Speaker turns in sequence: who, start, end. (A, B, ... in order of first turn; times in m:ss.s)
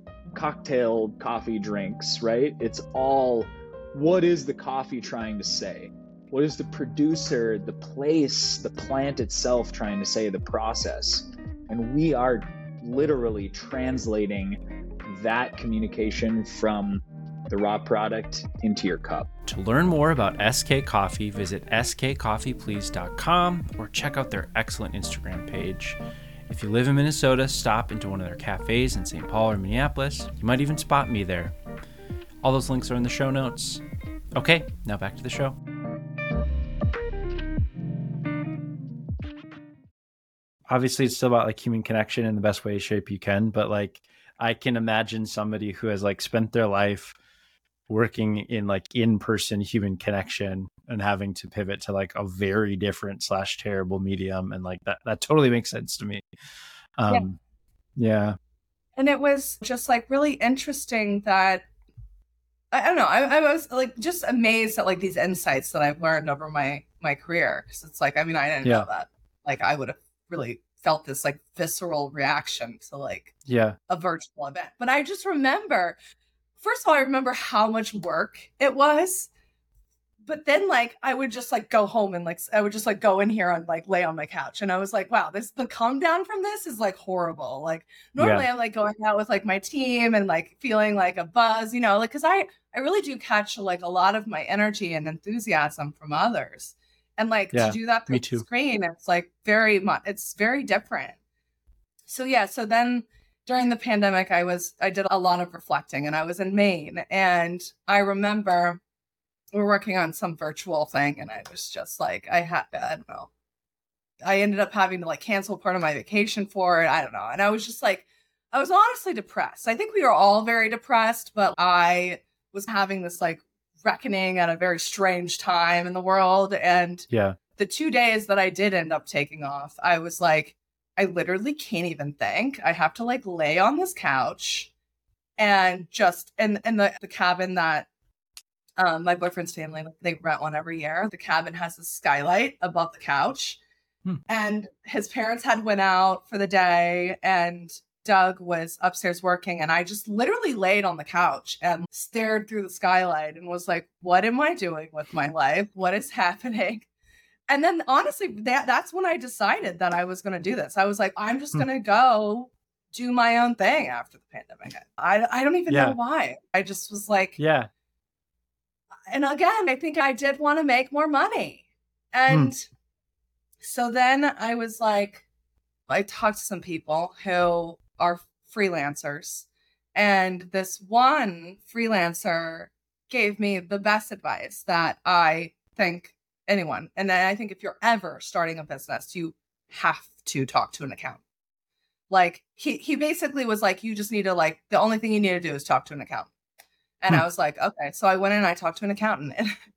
0:00.3-0:19.3 A
0:19.5-0:31.5 B
0:32.4-0:33.8 B
0:34.3-0:35.6 B
0:40.7-0:47.1 B
0:47.9-0:56.2 B
0:57.0-0:57.4 B
0:58.0-0:58.4 B
0:59.0-1:01.6 C
1:02.7-1:13.4 C
1:13.5-1:13.8 B
1:13.9-1:16.0 C
1:16.6-1:19.3 C
1:20.2-1:41.2 C
1:28.2-1:28.4 B
1:37.5-1:38.4 B
1:42.1-1:48.8 C
1:49.5-1:53.3 C
1:54.2-2:14.7 C
2:07.1-2:07.4 B
2:15.4-2:17.9 C
2:18.8-2:23.6 C
2:24.3-2:36.9 C
2:37.5-2:47.4 C
2:45.7-2:46.0 B
2:47.4-2:47.7 B
2:49.1-2:52.7 C
2:53.6-2:55.2 C
2:55.9-3:11.2 C
3:12.1-3:16.3 C
3:17.0-3:19.5 C